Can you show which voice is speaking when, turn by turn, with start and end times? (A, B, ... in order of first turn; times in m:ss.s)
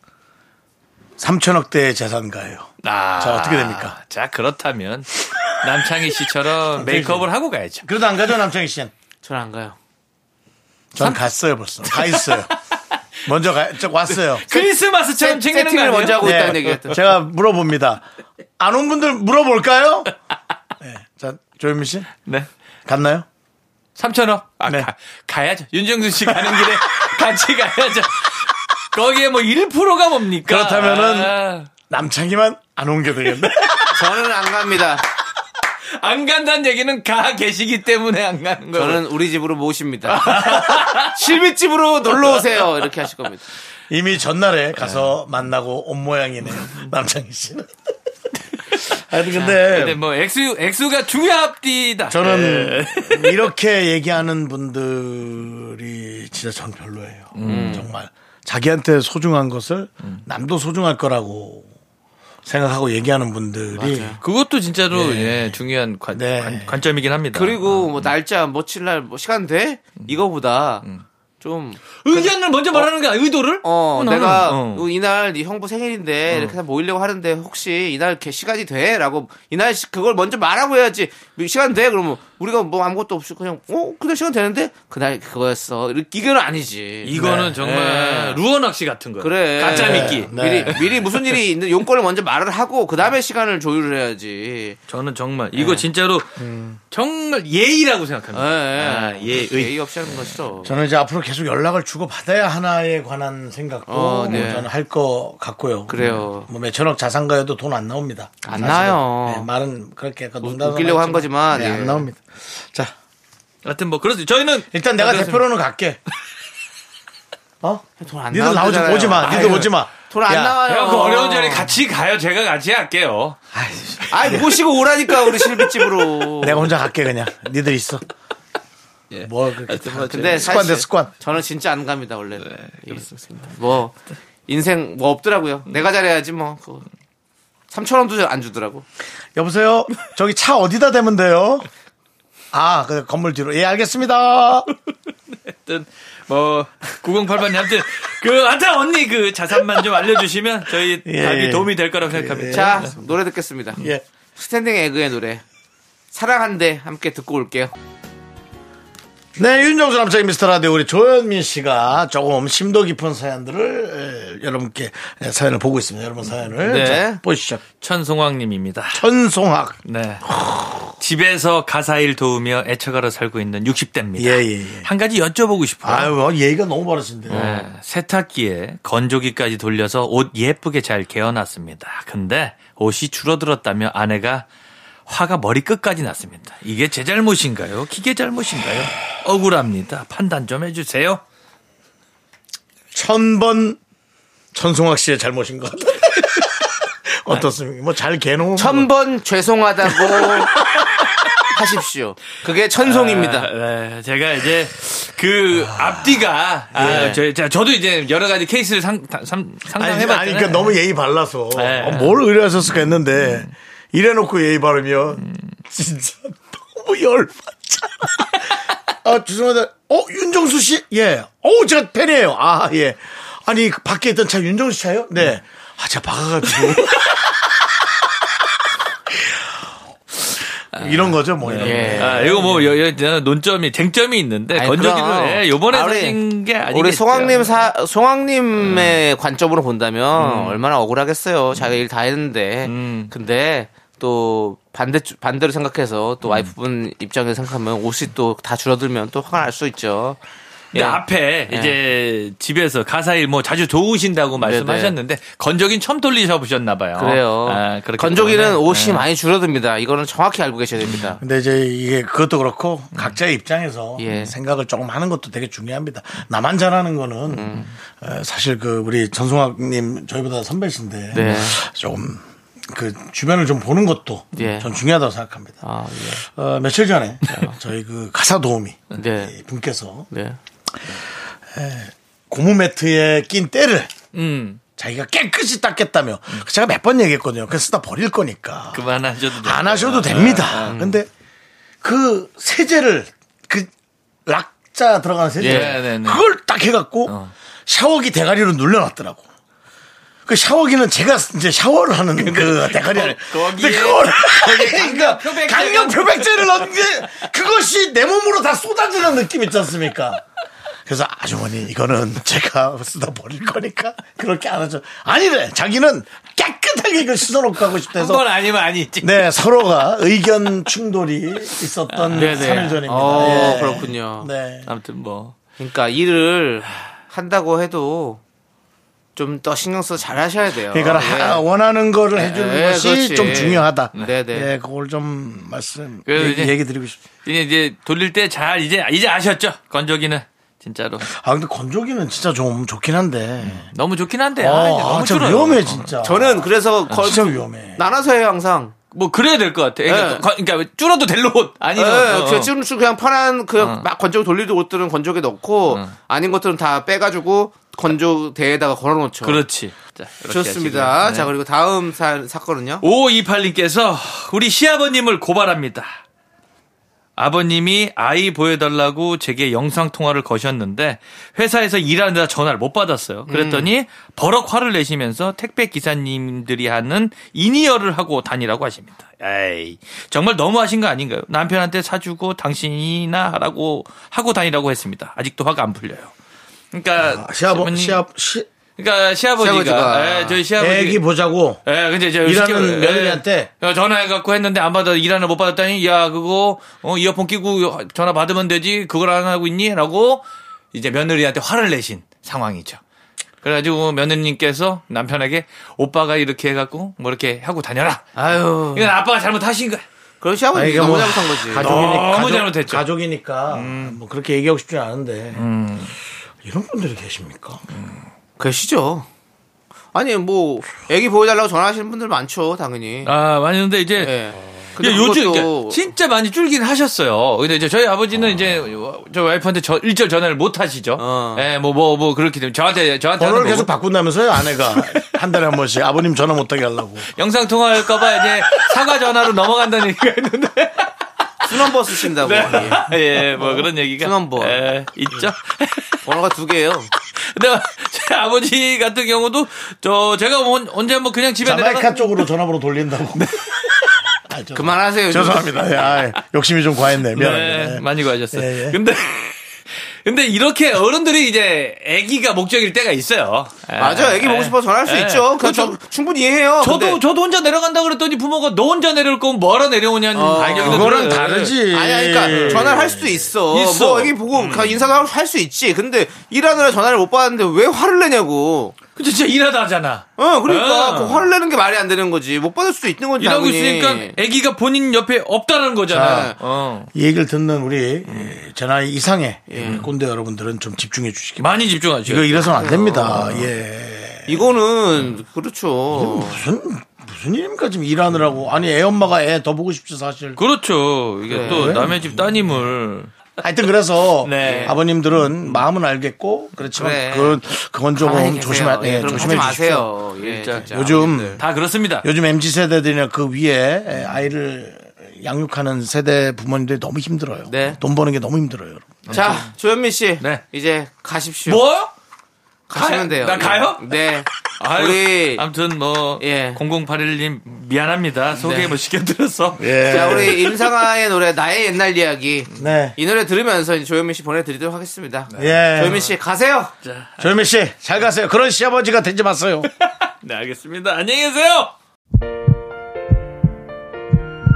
0:01.2-0:04.0 A
0:02.8-0:07.8 B
0:05.3-0:06.1 A
0:06.7-0:07.3 A
0:07.8-0:08.9 A
0:09.2-0:09.8 C
0:10.9-0:12.5 A
0:11.9-0:13.0 B
0:13.2-0:14.7 A
0:14.2-0:16.7 B
0:15.2-0:17.0 C
0:16.2-0:18.0 A
0:18.6-0:20.1 A
0:20.8-0:22.1 A
0:22.8-0:23.2 A
0:24.0-0:31.7 B
0:24.6-0:24.9 A
0:26.3-0:26.8 A
0:30.4-0:31.3 A
0:31.9-0:34.0 A
0:33.9-0:35.0 C
0:36.0-0:39.1 B
0:38.7-0:43.4 C
0:40.1-0:41.2 B
0:43.9-0:47.7 A
0:48.7-0:53.4 B
0:48.9-0:50.0 A
0:52.1-1:01.7 A
0:57.3-0:57.9 B
0:57.4-0:57.8 C
1:02.4-1:04.1 A
1:03.7-1:04.2 C
1:04.2-1:08.1 B
1:04.9-1:05.6 A
1:06.1-1:06.8 A
1:07.3-1:10.8 C
1:11.4-1:12.9 C
1:12.0-1:14.8 B
1:13.6-1:28.4 C
1:16.3-1:16.6 B
1:27.0-1:31.3 B
1:27.1-1:27.6 A
1:29.2-1:34.8 C
1:29.7-1:30.9 A
1:34.9-1:36.3 B
1:35.5-1:35.8 C
1:36.4-1:36.8 A
1:36.9-1:40.1 B
1:38.3-1:40.7 C
1:40.6-1:45.9 A
1:43.9-1:44.7 C
1:45.9-1:46.5 C
1:45.9-1:46.2 B
1:46.4-1:52.9 A
1:48.4-1:49.5 C
1:50.4-1:52.1 C
1:53.6-1:55.4 B
1:54.7-1:56.0 A
1:57.6-2:00.6 A
1:58.0-2:01.7 C
1:59.3-1:59.7 B
2:00.6-2:03.4 B
2:03.5-2:04.4 A
2:04.1-2:06.7 C
2:05.2-2:06.3 B
2:06.4-2:08.0 A
2:09.1-2:10.6 B
2:09.2-2:11.1 A
2:10.0-2:14.0 C
2:12.5-2:13.5 B
2:14.5-2:16.8 C
2:17.7-2:18.8 C
2:19.3-2:21.7 A
2:22.5-2:24.7 A
2:25.5-2:32.9 B
2:31.0-2:32.9 A
2:32.5-2:33.8 C
2:33.8-2:34.0 A
2:34.4-2:35.4 C
2:36.1-2:37.7 C
2:39.4-2:47.6 A
2:46.6-2:47.2 C
2:47.8-2:49.0 B
2:48.9-2:49.8 A
2:49.8-2:50.2 B
2:51.0-2:56.1 B
2:54.2-2:54.9 A
2:55.8-2:57.6 A
2:57.3-2:57.6 C
2:57.3-3:04.4 B
3:05.1-3:11.2 B
3:12.9-3:13.8 A
3:14.5-3:18.9 A
3:18.6-3:20.6 C
3:20.6-3:21.5 B
3:21.5-3:23.5 C
3:22.8-3:30.8 B
3:26.7-3:27.1 A
3:26.8-3:27.2 C
3:29.8-3:38.4 A
3:31.5-3:32.2 B
3:33.2-3:33.5 B
3:39.0-3:47.4 A
3:46.6-3:47.1 B
3:49.1-3:49.5 A
3:50.6-3:52.7 A
3:51.5-3:52.6 C
3:51.5-3:57.6 B
3:54.5-4:10.2 C
3:58.6-3:59.0 B
4:00.2-4:00.6 B
4:02.6-4:03.1 B
4:06.2-4:06.5 B
4:10.7-4:11.8 C
4:10.7-4:19.0 B
4:14.4-4:14.9 C
4:17.0-4:21.2 C
4:21.2-4:40.1 A
4:24.0-4:24.3 C
4:27.3-4:27.6 C
4:31.1-4:31.6 C
4:34.4-4:34.7 C
4:35.6-4:36.2 C
4:38.9-4:39.3 C
4:40.1-4:40.4 C
4:40.8-4:43.9 A
4:44.1-4:44.6 B
4:44.8-4:51.1 A
4:48.7-4:50.8 B
4:50.6-4:51.0 C
4:51.8-4:53.7 A
4:54.2-4:57.1 A
4:55.4-4:55.8 C
4:55.4-4:56.2 B
4:57.1-4:57.3 B
4:57.6-4:59.2 A
5:00.2-5:10.2 A
5:02.2-5:06.7 B
5:10.8-5:18.2 A
5:17.9-5:19.3 B
5:19.0-5:24.7 A
5:21.9-5:23.8 B
5:22.1-5:24.3 C
5:24.6-5:25.3 B
5:25.6-5:28.2 C
5:29.2-5:31.4 C
5:30.7-5:37.0 A
5:32.1-5:34.5 C
5:36.1-5:36.6 B
5:37.2-5:41.1 B
5:41.0-5:43.7 A
5:43.6-5:46.0 B
5:44.4-5:47.8 A
5:46.0-5:48.7 C
5:48.9-5:52.5 B
5:49.8-5:50.2 C
5:51.8-5:59.4 C
5:53.6-5:53.8 B
5:55.7-5:55.9 B
5:59.2-6:01.3 B
6:00.3-6:02.8 C
6:02.8-6:05.9 B
6:07.2-6:26.1 B
6:13.3-6:13.7 C
6:26.7-6:28.0 B
6:27.0-6:28.5 A
6:28.8-6:31.0 B
6:29.4-6:30.4 C
6:30.6-6:31.6 A
6:31.6-6:42.8 B
6:32.2-6:33.5 A
6:43.4-6:48.2 B
6:48.2-6:48.9 C
6:48.7-6:49.8 B
6:50.2-6:51.7 C
6:50.5-6:55.4 A
6:51.5-6:52.8 B
6:53.5-6:54.0 B
6:55.3-6:55.9 B
6:56.4-6:57.6 A
6:57.7-6:58.0 B
6:58.4-6:59.1 C
6:59.9-7:03.1 C
7:03.0-7:13.7 B
7:04.0-7:05.8 C
7:11.0-7:11.4 C
7:13.2-7:17.1 A
7:14.4-7:15.1 B
7:17.1-7:26.1 B
7:21.4-7:24.6 C
7:26.0-7:26.9 C
7:27.1-7:32.2 B
7:31.4-7:38.8 A
7:33.3-7:34.1 B
7:34.5-7:36.0 C
7:37.0-7:45.8 B
7:43.8-7:47.0 C
7:46.6-7:51.6 B
7:50.1-7:51.1 C
7:50.4-7:53.2 A
7:51.7-7:58.8 C
7:52.3-7:52.7 B
7:53.5-7:54.8 B
7:59.0-8:01.2 B
8:00.2-8:04.2 C
8:03.2-8:06.9 B
8:05.9-8:06.4 C
8:05.9-8:06.3 A
8:06.9-8:14.4 A
8:08.1-8:08.3 B
8:09.5-8:09.8 C
8:11.4-8:13.5 B
8:12.6-8:13.3 C
8:14.3-8:16.4 C
8:15.9-8:20.4 A
8:20.4-8:23.1 B
8:21.3-8:21.8 C
8:21.4-8:22.2 A
8:23.4-8:29.9 A
8:24.2-8:25.6 B
8:24.4-8:24.7 C
8:26.7-8:27.4 C
8:27.9-8:31.4 C
8:29.1-8:29.5 B
8:30.2-8:30.7 B
8:30.7-8:31.4 A
8:31.4-8:32.0 B
8:32.0-8:39.4 A
8:37.5-8:37.8 C
8:39.1-8:41.6 C
8:39.1-8:39.5 B
8:41.5-8:41.9 B
8:42.7-8:45.4 C
8:42.7-8:50.7 B
8:46.2-8:46.6 C
8:48.4-8:48.7 C
8:49.6-8:50.5 A
8:49.8-8:56.7 C
8:52.6-8:53.0 A
8:55.3-8:56.1 B
8:55.4-8:56.0 A
8:56.8-8:57.3 B
8:57.2-8:59.7 A
8:59.8-9:01.7 B